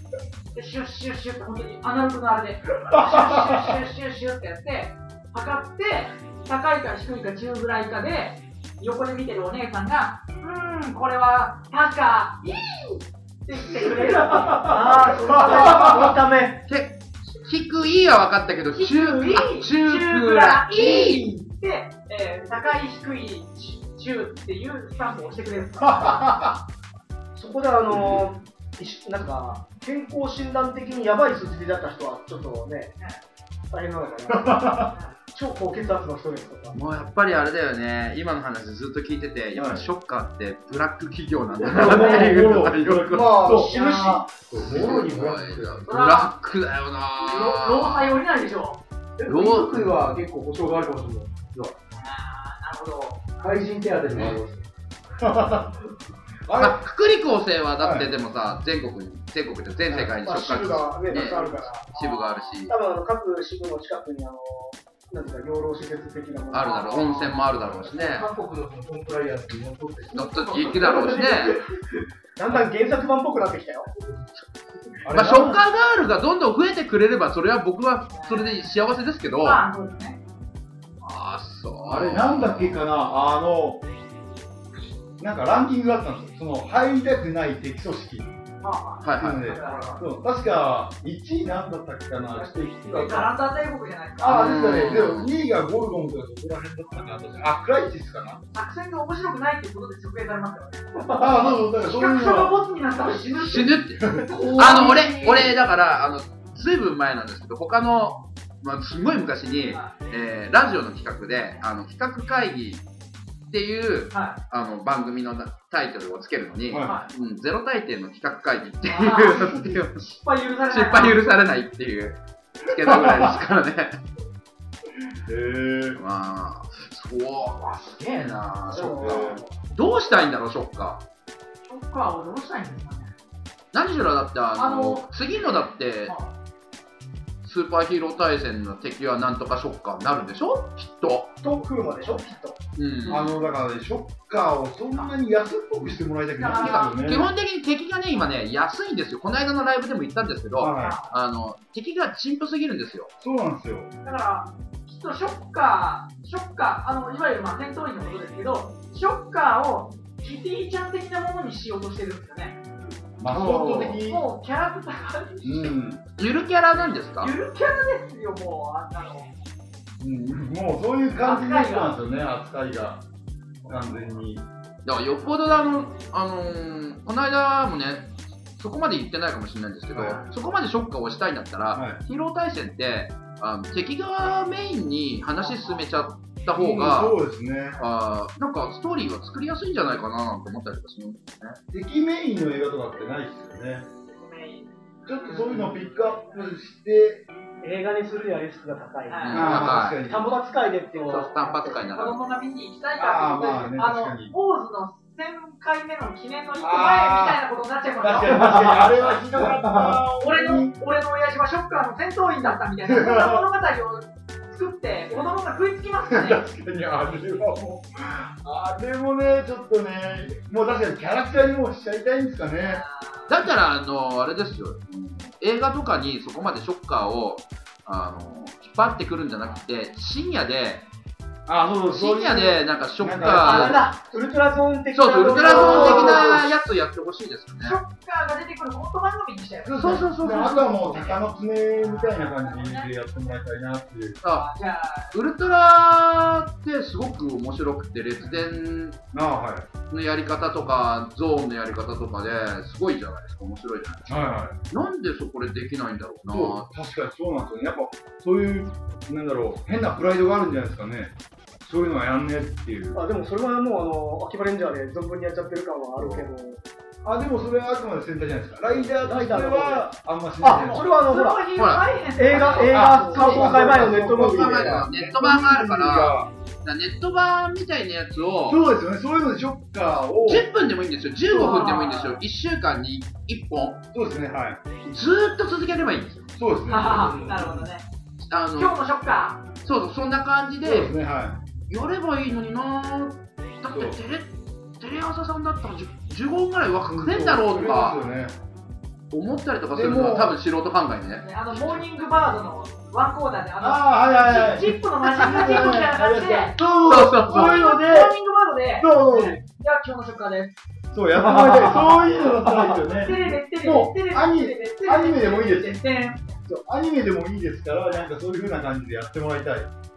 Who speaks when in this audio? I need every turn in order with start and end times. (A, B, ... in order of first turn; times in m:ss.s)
0:00.5-0:15.4 A
0:03.1-0:03.6 B
0:14.6-0:16.6 C
0:15.7-0:16.1 B
0:16.7-0:21.4 D
0:18.7-0:26.4 A
0:26.0-0:26.5 B
0:27.4-0:33.0 C
0:27.9-0:28.3 B
0:33.7-0:36.8 C
0:34.3-0:34.9 B
0:34.9-0:35.2 A
0:36.7-0:43.6 D
0:39.6-0:39.8 B
0:41.6-0:45.8 B
0:41.8-0:42.2 C
0:43.4-0:44.0 C
0:43.5-0:44.3 A
0:44.6-0:48.2 D
0:45.9-0:46.3 A
0:47.2-0:48.8 A
0:49.2-0:51.7 E
0:49.2-0:49.8 D
0:49.6-0:51.0 C
0:51.9-0:53.4 A
0:53.4-0:54.6 E
0:54.1-0:54.4 B
0:55.2-0:55.8 B
0:56.5-0:56.8 B
0:56.6-1:02.7 D
0:57.8-0:58.1 B
0:59.9-1:02.0 C
1:01.9-1:02.5 A
1:02.7-1:07.2 C
1:06.5-1:08.3 D
1:07.2-1:11.4 E
1:10.1-1:11.6 D
1:10.6-1:11.8 C
1:12.4-1:13.9 C
1:15.0-1:15.7 B
1:15.1-1:19.6 D
1:18.1-1:18.7 A
1:19.4-1:20.2 A
1:21.0-1:22.9 D
1:21.9-1:23.8 B
1:25.2-1:28.3 B
1:28.6-1:30.0 A
1:29.0-1:29.6 D
1:29.2-1:33.3 B
1:32.4-1:34.4 A
1:34.2-1:38.4 B
1:34.2-1:35.3 D
1:38.5-1:43.8 A
1:41.1-1:42.6 B
1:43.3-1:52.8 D
1:44.0-1:45.4 B
1:44.3-1:45.4 C
1:53.5-2:00.0 D
1:54.1-1:54.4 A
1:56.7-1:57.0 B
1:56.8-1:57.1 A
1:58.9-2:01.4 A
2:00.7-2:04.0 D
2:02.8-2:03.3 B
2:05.3-2:06.0 B
2:06.0-2:11.0 D
2:08.7-2:09.5 C
2:09.0-2:09.4 B
2:11.7-2:13.1 A
2:13.7-2:16.1 D
2:14.6-2:15.1 A
2:16.1-2:16.3 A
2:17.4-2:21.4 D
2:21.4-2:22.6 C
2:22.0-2:22.5 A
2:22.8-2:23.4 D
2:23.0-2:23.3 A
2:23.1-2:27.3 B
2:26.4-2:27.0 A
2:26.5-2:33.1 D
2:30.6-2:31.0 B
2:30.8-2:31.2 A
2:33.2-2:33.9 B
2:34.0-2:42.6 A
2:43.2-2:44.2 B
2:43.4-2:45.8 A
2:45.4-2:46.0 B
2:46.2-2:47.3 D
2:47.2-2:49.3 A
2:50.0-2:53.0 B
2:51.2-2:52.0 A
2:53.6-2:54.5 B
2:54.8-3:07.2 D
2:59.9-3:00.2 B
3:01.7-3:02.0 B
3:05.4-3:06.1 A
3:06.5-3:07.8 B
3:07.8-3:11.6 D
3:11.7-3:13.9 B
3:14.1-3:16.6 A
3:15.0-3:17.3 B
3:17.6-3:21.9 C
3:19.1-3:19.5 A
3:19.2-3:20.0 D
3:19.3-3:20.3 B
3:21.0-3:36.4 A
3:21.0-3:22.2 D
3:23.0-3:24.3 B
3:26.6-3:27.4 B
3:28.0-3:30.7 B
3:32.8-3:33.4 B
3:36.1-3:42.8 B
3:42.6-3:43.3 A
3:43.3-3:50.9 D
3:51.5-3:53.9 B
3:51.9-3:53.8 D
3:53.4-3:54.0 A
3:53.5-3:56.5 C
3:54.9-3:57.8 D
3:55.4-3:56.3 B
3:55.6-3:56.3 A
3:57.6-4:01.0 A
3:59.6-4:04.2 B
3:59.8-4:01.1 D
4:01.8-4:02.9 A
4:04.2-4:04.5 D
4:04.3-4:05.2 A
4:05.1-4:09.0 D
4:09.1-4:09.7 B
4:09.9-4:16.7 D
4:14.1-4:14.6 B
4:16.3-4:23.0 B
4:22.9-4:26.6 C
4:26.0-4:26.3 B
4:27.0-4:30.9 B
4:29.0-4:29.9 C
4:30.4-4:31.5 C
4:30.5-4:33.9 A
4:31.6-4:31.9 D
4:32.2-4:34.9 C
4:32.6-4:36.3 B
4:34.2-4:38.6 D
4:38.5-4:40.5 B
4:40.2-4:43.8 D
4:41.3-4:42.2 A
4:43.9-4:44.6 B
4:44.8-4:46.3 D
4:46.4-4:47.6 B
4:46.7-4:47.8 A
4:48.2-4:48.8 D
4:48.6-4:49.4 A
4:49.6-4:51.0 D
4:50.6-4:51.4 B
4:51.7-4:58.0 D
4:53.7-4:54.0 B
4:56.9-4:58.4 B
4:59.1-5:01.8 D
4:59.7-5:00.4 B
5:01.2-5:06.6 A
5:03.6-5:08.1 B
5:06.7-5:07.6 D
5:07.2-5:10.6 A
5:08.8-5:09.4 B
5:10.9-5:15.8 B
5:11.2-5:12.7 C
5:12.9-5:16.4 A
5:16.4-5:19.7 B